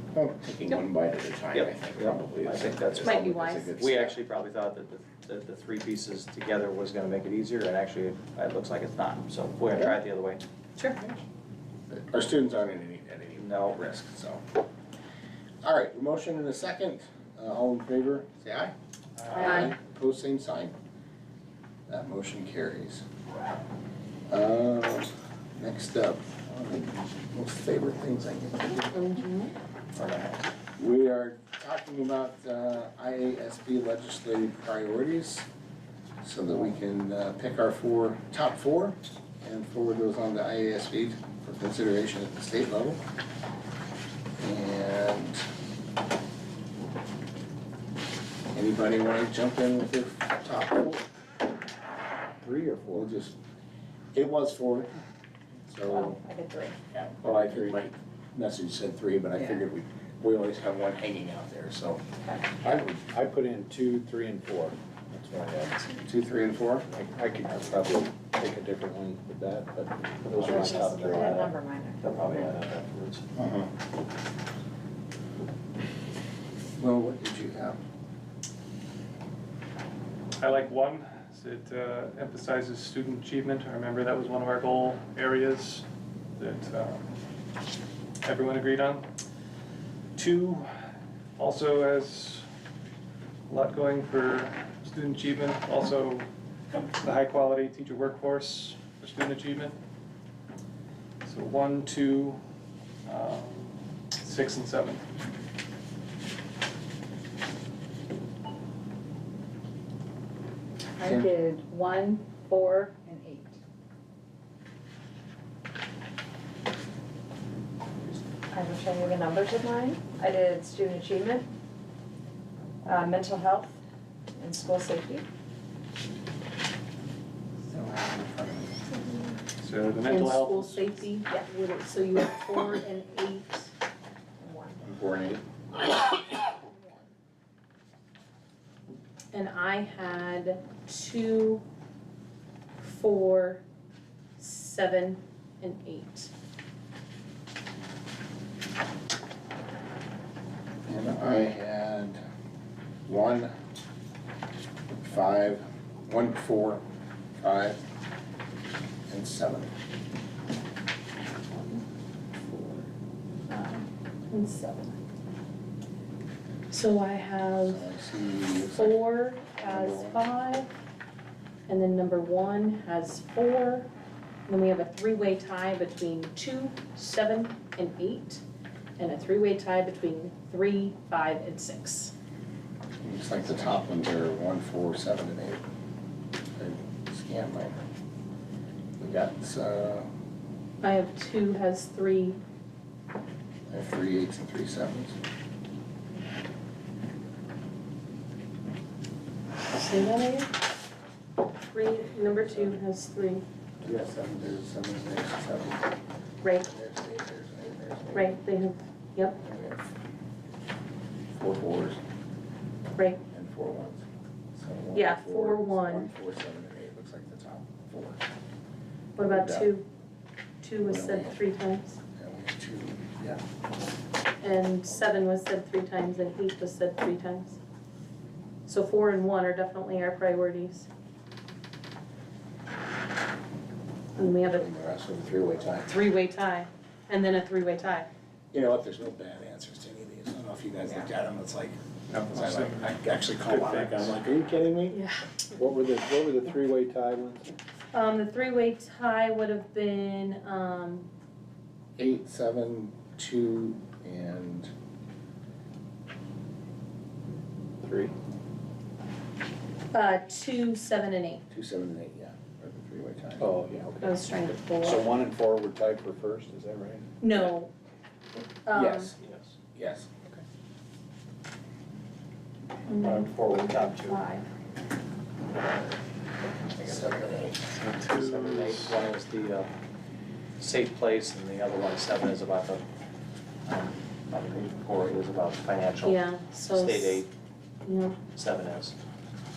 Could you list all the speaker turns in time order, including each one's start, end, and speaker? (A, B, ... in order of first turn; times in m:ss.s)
0:00.1-0:04.2 A
0:01.5-0:10.4 B
0:03.0-0:03.7 C
0:11.9-0:14.4 A
0:13.4-0:13.8 B
0:15.6-0:18.7 A
0:19.3-0:20.8 A
0:19.3-0:19.7 C
0:21.9-0:23.0 A
0:24.3-0:29.2 A
0:28.9-0:29.5 C
0:30.0-0:30.3 B
0:30.8-0:35.4 A
0:36.2-0:43.0 A
0:44.4-0:45.4 A
0:48.5-0:51.0 A
0:52.4-0:53.1 D
0:52.9-0:53.4 A
0:54.1-0:54.9 A
0:55.7-0:56.2 A
0:55.9-0:56.8 E
0:56.9-1:02.0 A
0:57.3-0:57.8 D
1:02.2-1:02.5 E
1:02.6-1:02.9 A
1:02.6-1:05.9 D
1:06.0-1:06.9 A
1:06.9-1:11.4 D
1:10.2-1:13.2 B
1:10.4-1:12.5 E
1:13.4-1:13.7 A
1:16.8-1:17.8 A
1:20.4-1:25.8 F
1:26.4-1:27.1 F
1:28.2-1:29.1 F
1:30.2-1:30.7 F
1:31.4-1:32.4 F
1:33.5-1:36.3 F
1:37.0-1:39.8 F
1:41.2-1:42.4 F
1:43.1-1:45.1 F
1:51.0-1:53.6 E
1:58.5-2:01.5 E
2:02.8-2:03.8 E
2:04.3-2:05.3 E
2:07.7-2:08.8 A
2:09.6-2:11.0 F
2:10.1-2:13.7 C
2:14.4-2:14.7 E
2:14.8-2:15.4 A
2:19.3-2:21.6 C
2:22.8-2:23.6 C
2:24.4-2:26.3 C
2:30.9-2:32.2 A
2:33.1-2:33.5 A
2:34.9-2:36.8 A
2:37.4-2:37.8 A
2:39.1-2:39.7 A
2:41.6-2:41.8 C
2:42.4-2:42.9 C
2:43.5-2:44.9 C
2:46.7-2:47.8 C
2:47.6-2:50.2 A
2:48.7-2:50.7 C
2:51.7-2:53.9 C
2:54.5-2:58.4 C
2:59.0-3:02.1 C
3:03.0-3:05.6 A
3:06.6-3:07.8 A
3:09.0-3:10.1 A
3:10.8-3:12.4 C
3:13.7-3:15.2 A
3:19.7-3:20.5 C
3:21.7-3:23.4 C
3:23.8-3:25.9 A
3:26.6-3:28.4 A
3:28.1-3:29.4 C
3:29.4-3:29.9 A
3:31.3-3:32.0 A
3:33.3-3:34.0 A
3:34.6-3:38.2 A
3:34.9-3:36.0 C
3:39.2-3:39.8 C
3:39.2-3:39.7 A
3:40.6-3:42.0 C
3:40.8-3:41.4 A
3:42.2-3:43.4 A
3:44.4-3:47.6 C
3:48.7-3:50.9 C
3:54.2-3:54.7 C
3:54.2-3:55.9 A
3:55.8-3:58.1 C
3:58.5-4:01.8 A
4:02.1-4:04.2 F
4:02.3-4:05.0 A
4:04.9-4:05.3 C
4:05.5-4:07.5 D
4:07.9-4:11.1 C
4:12.0-4:14.7 A
4:17.8-4:18.1 D
4:19.9-4:21.4 C
4:21.5-4:23.5 A
4:23.4-4:27.5 D
4:24.0-4:25.1 C
4:27.2-4:27.7 C
4:28.4-4:29.1 C
4:28.7-4:29.1 A
4:29.2-4:29.6 B
4:29.8-4:30.1 A
4:32.9-4:34.5 C
4:33.0-4:34.2 B
4:36.7-4:37.3 B
4:36.8-4:37.7 A
4:37.7-4:39.0 F
4:38.1-4:39.7 B
4:40.6-4:42.8 B
4:43.6-4:47.3 B
4:46.0-4:47.2 C
4:47.8-4:48.2 C
4:48.3-4:48.9 B